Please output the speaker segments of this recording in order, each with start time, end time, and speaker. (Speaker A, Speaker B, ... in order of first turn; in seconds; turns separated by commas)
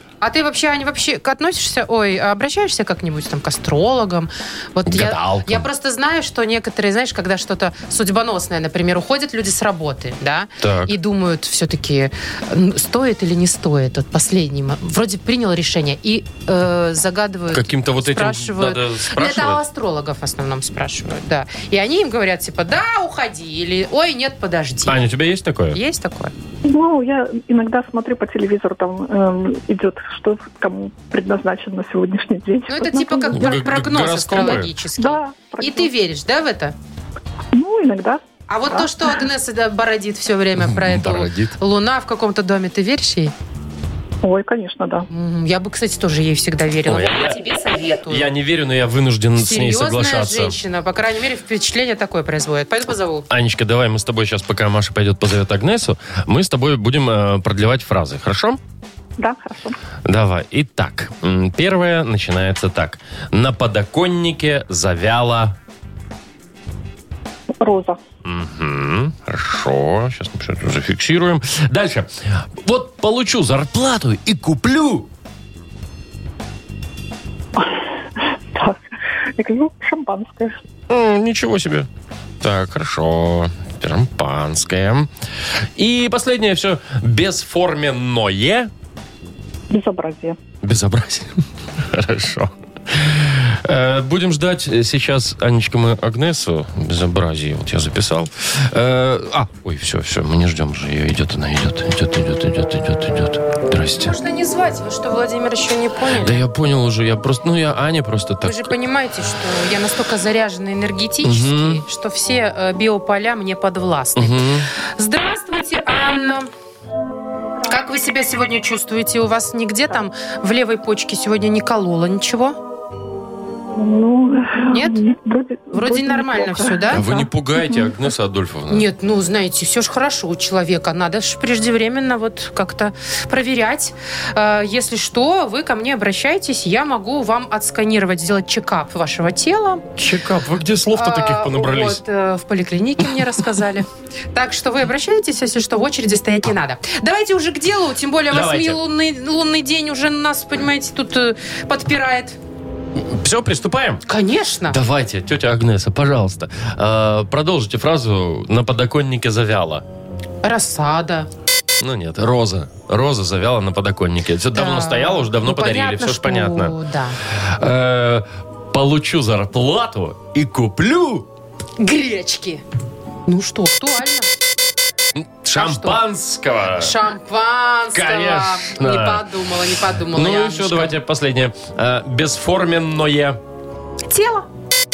Speaker A: 0.2-25.0, Speaker B: 4.9-5.7, Speaker B: 10.6-10.9, Speaker B: 17.5-19.6, Speaker B: 24.9-25.8, Speaker A: 25.7-26.3, Speaker C: 26.6-33.7, Speaker A: 32.7-36.8, Speaker B: 33.3-34.7, Speaker C: 34.4-35.9, Speaker C: 37.5-39.2, Speaker A: 38.5-43.3, Speaker B: 40.6-41.5, Speaker C: 44.2-45.1, Speaker A: 45.1-48.3, Speaker B: 46.9-47.4, Speaker B: 48.1-50.6, Speaker A: 49.4-53.3, Speaker B: 53.3-58.6, Speaker C: 59.2-59.8, Speaker B: 60.1-65.6, Speaker C: 67.6-68.0, Speaker B: 68.2-75.1, Speaker C: 77.6-77.9, Speaker C: 78.5-78.8, Speaker C: 79.4-80.6, Speaker B: 80.9-81.9, Speaker B: 82.4-85.1, Speaker B: 85.8-88.7, Speaker C: 89.7-90.4, Speaker B: 90.6-104.2, Speaker A: 104.0-106.4, Speaker B: 106.2-108.7, Speaker A: 108.4-116.5, Speaker B: 111.2-111.8, Speaker B: 114.2-114.7, Speaker A: 117.7-122.6, Speaker C: 123.8-127.9, Speaker A: 124.7-125.0, Speaker A: 125.7-127.0, Speaker B: 126.9-128.9, Speaker A: 128.7-139.8, Speaker B: 140.0-142.0, Speaker A: 140.9-152.4, Speaker B: 148.3-148.8, Speaker B: 153.0-154.0, Speaker A: 154.1-154.8, Speaker B: 154.7-159.8, Speaker A: 160.4-161.3, Speaker B: 161.8-166.7, Speaker A: 164.5-167.2, Speaker B: 167.4-171.3, Speaker A: 171.8-172.6, Speaker A: 173.3-174.3, Speaker B: 175.2-176.9, Speaker A: 175.5-176.0, Speaker A: 176.8-180.9, Speaker B: 177.9-179.3, Speaker B: 180.1-183.4, Speaker A: 184.1-184.5